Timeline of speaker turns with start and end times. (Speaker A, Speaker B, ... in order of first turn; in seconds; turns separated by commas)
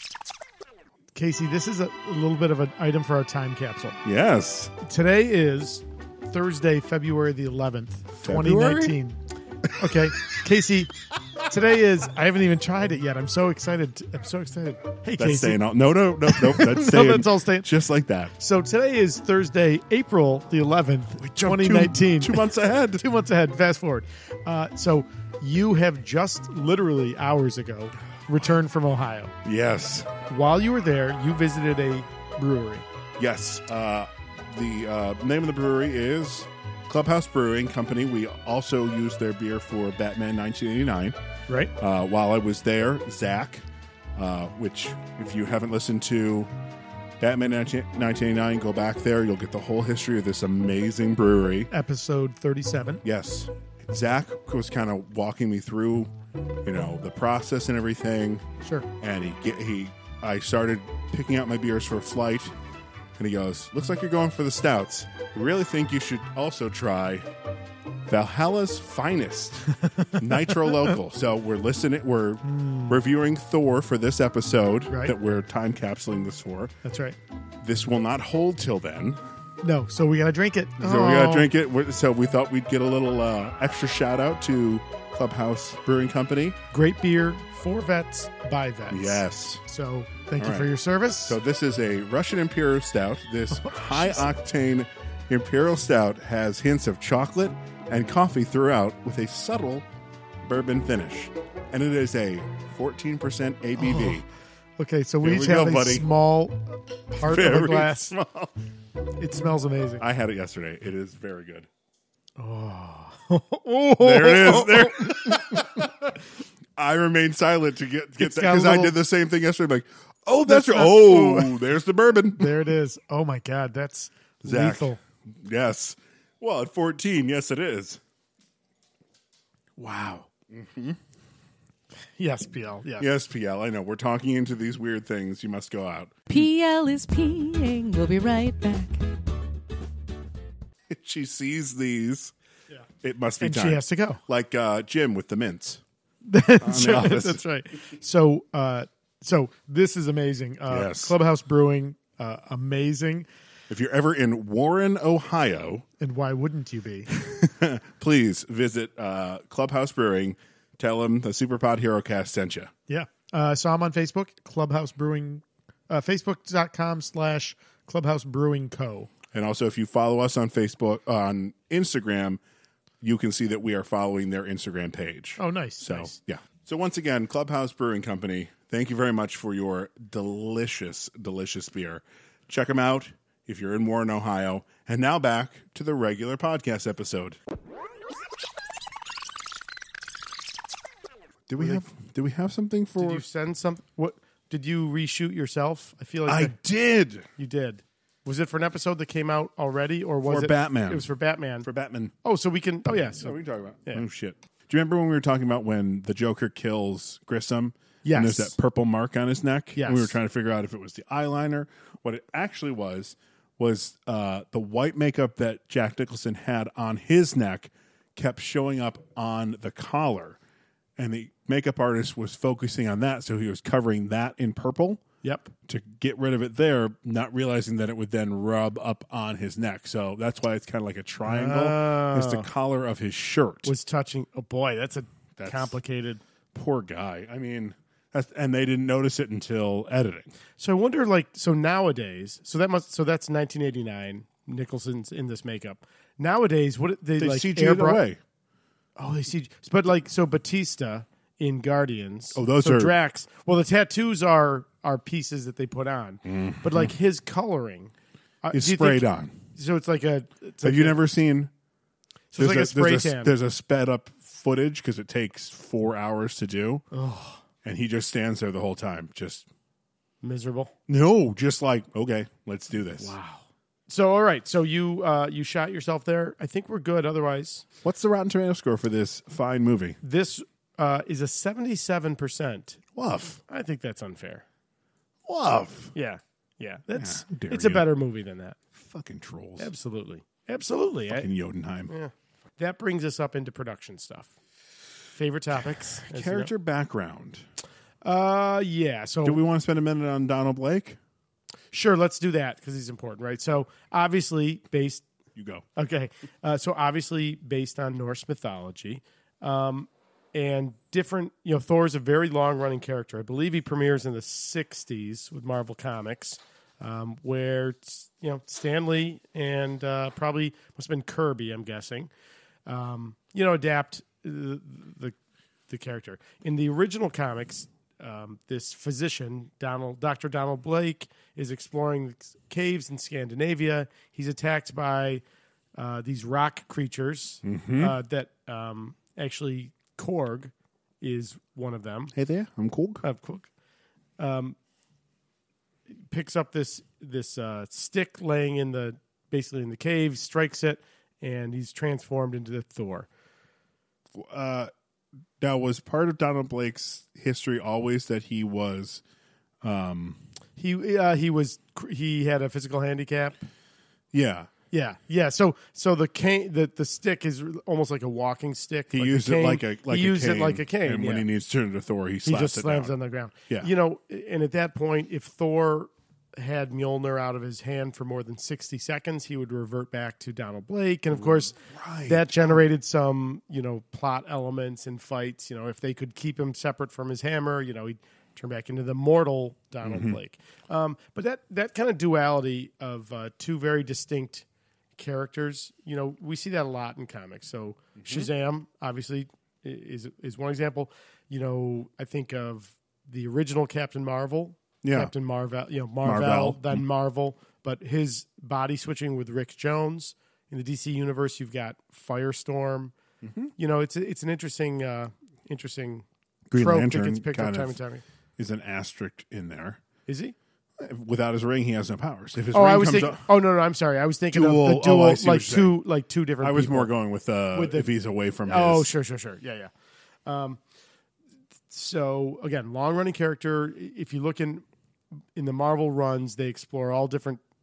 Speaker A: 1.1-4.0, Speaker B: 4.0-4.7, Speaker A: 4.8-9.2, Speaker B: 8.2-8.9, Speaker A: 9.8-10.9, Speaker A: 11.4-15.6, Speaker B: 15.2-18.3, Speaker A: 16.3-17.7, Speaker A: 18.4-29.3, Speaker B: 21.2-23.0, Speaker B: 29.4-30.1, Speaker A: 30.3-32.9, Speaker B: 33.2-41.2, Speaker B: 41.8-46.5, Speaker B: 47.2-51.7, Speaker A: 51.7-53.0, Speaker B: 53.0-56.1, Speaker B: 56.6-58.5, Speaker A: 58.6-58.9, Speaker B: 59.0-62.5, Speaker B: 63.2-67.3, Speaker B: 68.1-76.7, Speaker A: 72.5-73.0, Speaker A: 74.9-75.1, Speaker A: 76.8-77.2, Speaker B: 77.6-79.2, Speaker A: 79.6-81.5, Speaker B: 80.8-86.6, Speaker A: 86.7-91.4, Speaker B: 88.9-89.6, Speaker B: 90.4-90.7, Speaker B: 91.2-99.8, Speaker A: 93.6-94.2, Speaker B: 100.4-104.2, Speaker A: 103.8-104.2, Speaker A: 104.8-108.1, Speaker B: 105.2-106.0, Speaker B: 107.2-108.5, Speaker A: 109.2-110.0, Speaker B: 110.0-111.7, Speaker A: 112.4-115.7, Speaker B: 114.0-116.1, Speaker B: 116.8-122.5, Speaker A: 118.2-119.0, Speaker A: 120.5-121.6, Speaker A: 122.4-125.0, Speaker B: 124.4-128.0, Speaker B: 129.8-131.0, Speaker A: 132.2-133.1, Speaker B: 133.0-136.2, Speaker C: 136.3-139.0, Speaker B: 140.9-142.3, Speaker B: 143.0-145.8, Speaker A: 143.4-144.2, Speaker A: 146.2-153.3, Speaker B: 146.6-147.4, Speaker B: 150.7-151.2, Speaker B: 153.7-155.8, Speaker A: 156.0-157.1, Speaker B: 157.2-162.7, Speaker A: 162.9-169.1, Speaker B: 169.3-172.4, Speaker B: 173.0-187.4, Speaker A: 175.4-176.1, Speaker B: 191.5-193.2, Speaker A: 193.0-196.6, Speaker B: 196.3-197.3, Speaker A: 197.4-201.7, Speaker B: 200.2-201.1, Speaker B: 201.6-202.1, Speaker A: 202.2-204.0, Speaker B: 203.2-220.4, Speaker A: 208.0-208.5, Speaker A: 209.8-210.1, Speaker B: 221.0-225.0, Speaker A: 225.2-225.5, Speaker B: 225.7-233.7, Speaker A: 231.2-232.5, Speaker A: 233.6-236.2, Speaker B: 235.4-235.8, Speaker B: 236.5-240.3, Speaker A: 240.6-248.0, Speaker B: 247.2-248.2, Speaker A: 248.9-261.0, Speaker B: 252.3-252.9, Speaker B: 256.2-256.9, Speaker B: 258.5-259.4, Speaker B: 260.6-261.5, Speaker A: 262.3-263.3, Speaker B: 262.4-266.8, Speaker A: 266.9-267.4, Speaker B: 267.6-269.4, Speaker A: 270.2-270.7, Speaker B: 270.9-273.1, Speaker A: 273.0-277.6, Speaker B: 277.8-280.0, Speaker A: 280.0-282.8, Speaker B: 282.9-283.4, Speaker A: 283.5-284.4, Speaker B: 285.2-285.9, Speaker A: 285.9-288.6, Speaker B: 286.9-287.9, Speaker B: 288.7-289.7, Speaker A: 289.6-291.3, Speaker B: 291.1-291.9, Speaker A: 291.9-294.3, Speaker A: 295.1-296.5, Speaker B: 296.1-297.5, Speaker A: 298.0-299.4, Speaker B: 299.2-301.0, Speaker A: 301.7-305.0, Speaker B: 305.4-305.6, Speaker A: 305.8-322.1, Speaker A: 322.6-325.1, Speaker A: 325.7-335.2, Speaker A: 335.8-342.1, Speaker B: 337.4-337.9, Speaker B: 342.1-343.0, Speaker A: 343.0-343.5, Speaker A: 344.2-344.6, Speaker A: 345.9-353.1, Speaker B: 354.1-354.7, Speaker B: 355.4-359.0, Speaker B: 359.6-360.2, Speaker A: 360.6-363.5, Speaker B: 364.1-364.5, Speaker A: 364.7-371.3, Speaker B: 368.9-372.9, Speaker A: 372.2-394.4, Speaker B: 381.6-382.6, Speaker B: 389.8-390.2, Speaker A: 395.0-412.9, Speaker B: 398.0-398.3, Speaker B: 404.8-405.1, Speaker B: 406.0-406.8, Speaker B: 413.2-413.5, Speaker A: 413.6-418.0, Speaker B: 416.5-417.8, Speaker B: 418.4-419.8, Speaker A: 420.1-420.4, Speaker B: 420.8-423.3, Speaker A: 422.5-426.9, Speaker B: 424.3-425.8, Speaker B: 426.4-428.9, Speaker A: 427.5-427.9, Speaker A: 428.4-429.7, Speaker A: 430.2-430.6, Speaker A: 431.7-434.6, Speaker A: 435.3-437.4